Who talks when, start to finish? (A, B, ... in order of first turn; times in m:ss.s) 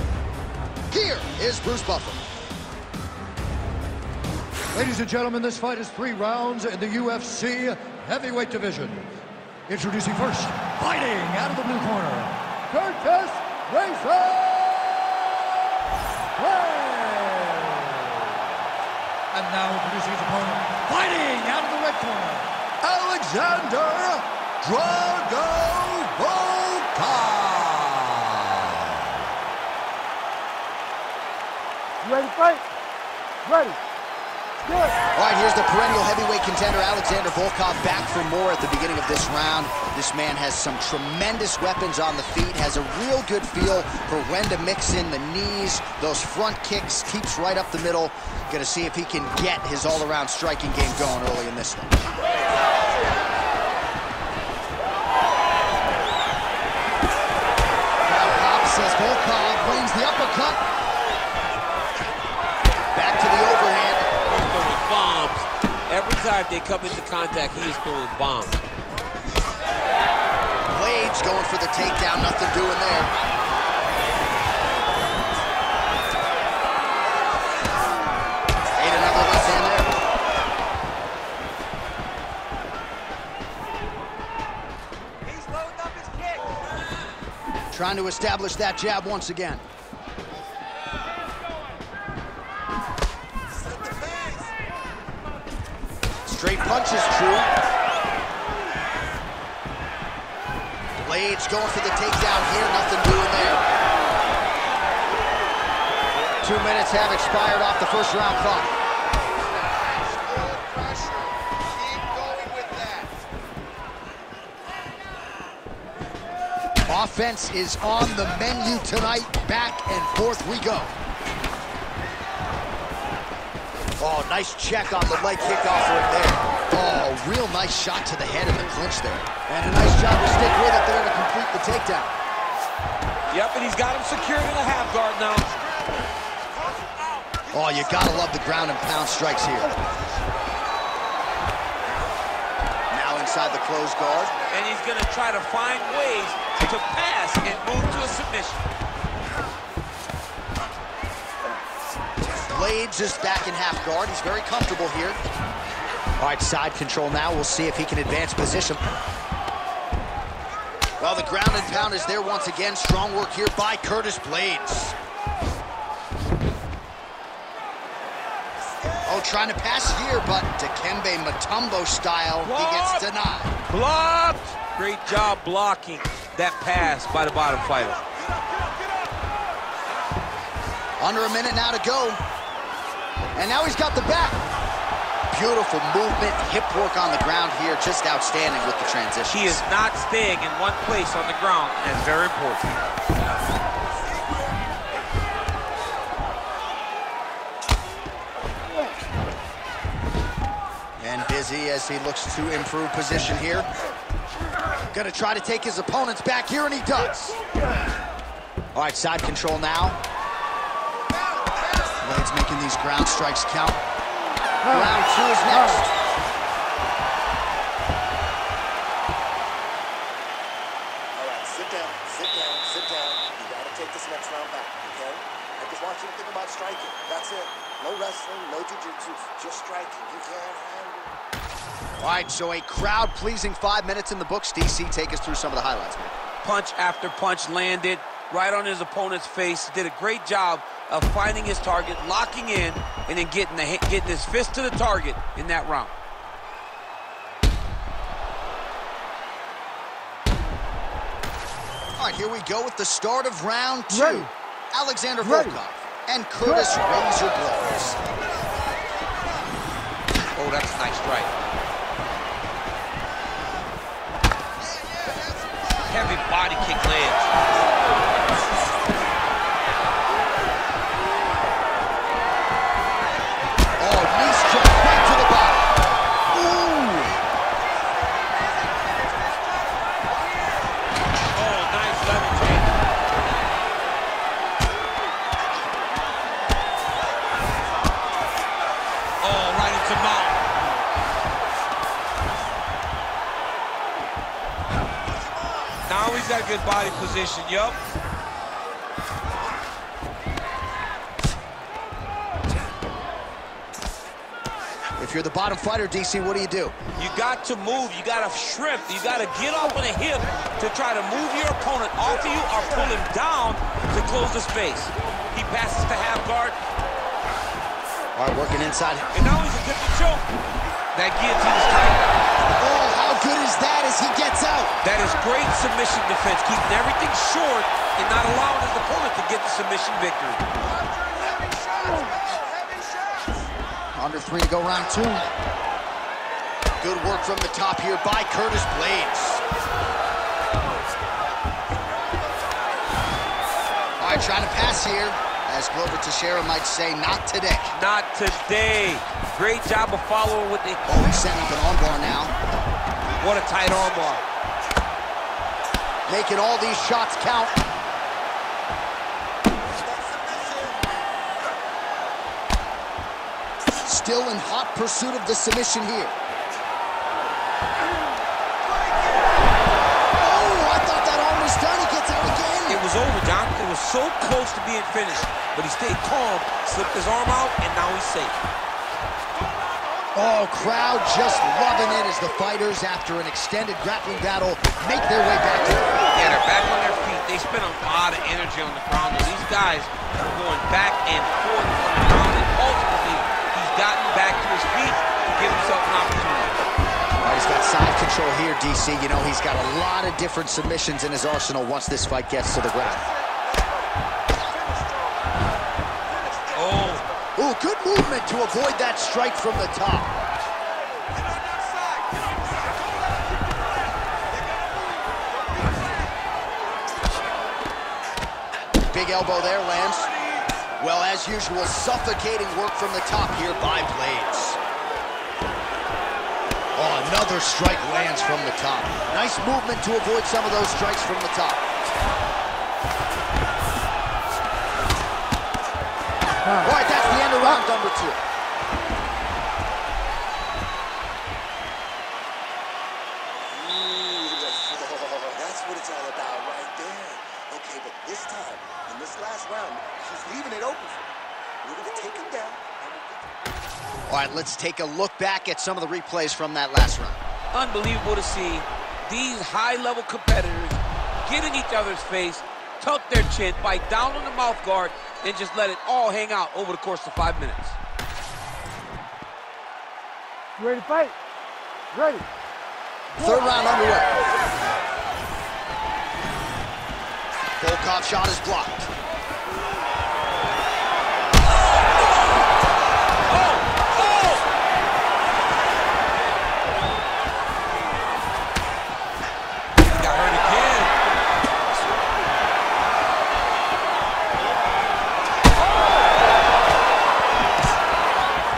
0:00.9-0:02.2 A
0:04.7-0:09.1 B
0:09.7-0:15.5 B
0:16.4-0:18.4 B
0:19.3-0:29.1 B
0:32.0-0:32.6 C
0:33.4-0:33.8 C
0:34.7-0:35.0 C
0:35.2-0:51.9 A
0:58.0-1:00.6 A
1:02.9-1:04.1 A
1:04.2-1:08.6 D
1:10.7-1:13.1 A
1:18.8-1:19.9 A
1:27.7-1:29.6 A
1:33.9-1:34.4 E
1:36.2-1:37.5 A
1:41.0-1:43.6 A
1:46.4-1:48.7 A
1:49.8-1:50.5 E
1:51.2-1:53.1 E
1:56.9-2:01.0 A
2:04.0-2:12.1 A
2:13.3-2:15.5 D
2:17.5-2:19.8 A
2:22.9-2:24.3 A
2:24.5-2:28.6 D
2:32.3-2:35.2 A
2:36.2-2:38.8 A
2:41.0-2:44.9 A
2:48.7-2:49.0 E
2:49.0-2:53.5 A
2:52.4-2:53.1 D
2:53.7-2:58.0 D
3:01.0-3:02.2 A
3:03.3-3:04.4 A
3:05.3-3:09.6 A
3:09.3-3:12.7 D
3:21.0-3:23.7 A
3:24.9-3:27.4 A
3:28.7-3:30.0 A
3:32.0-3:33.8 A
3:34.6-3:35.8 B
3:34.7-3:35.9 A
3:41.1-3:51.2 E
3:52.0-3:56.1 A
3:56.4-4:05.9 D
4:12.0-4:18.0 A
4:13.9-4:14.2 C
4:15.2-4:15.6 C
4:20.3-4:21.3 D
4:25.8-4:27.3 D
4:33.8-4:35.7 A
4:36.3-4:37.2 A
4:41.3-4:42.8 D
4:49.2-4:50.4 D
4:55.9-4:57.8 D
5:05.0-5:06.8 A
5:07.0-5:16.6 D
5:18.2-5:19.1 A
5:19.1-5:20.2 D
5:20.9-5:22.1 D
5:22.6-5:24.7 A
5:24.8-5:30.4 D
5:30.9-5:33.3 E
5:33.9-5:35.3 A
5:36.8-5:39.4 A
5:44.0-5:47.8 A
5:47.7-5:50.9 D
5:50.9-5:52.3 A
5:53.2-5:54.2 D
5:56.1-5:57.5 A
6:00.1-6:00.7 E
6:03.8-6:06.1 A
6:10.2-6:12.8 A
6:12.7-6:18.4 D
6:20.1-6:26.0 A
6:26.1-6:36.6 D
6:37.2-6:43.0 A
6:46.5-6:47.0 D
6:47.4-6:50.2 A
6:51.7-6:52.0 E
6:58.9-7:00.1 A
7:00.8-7:04.6 A
7:06.8-7:11.6 A
7:16.5-7:18.2 A
7:23.4-7:33.2 E
7:34.1-7:37.2 A
7:37.5-7:47.8 D
7:50.6-7:51.2 C
7:51.9-7:52.3 C
7:53.2-7:54.2 A
7:57.6-7:58.9 A
8:03.3-8:04.4 D
8:09.8-8:11.0 D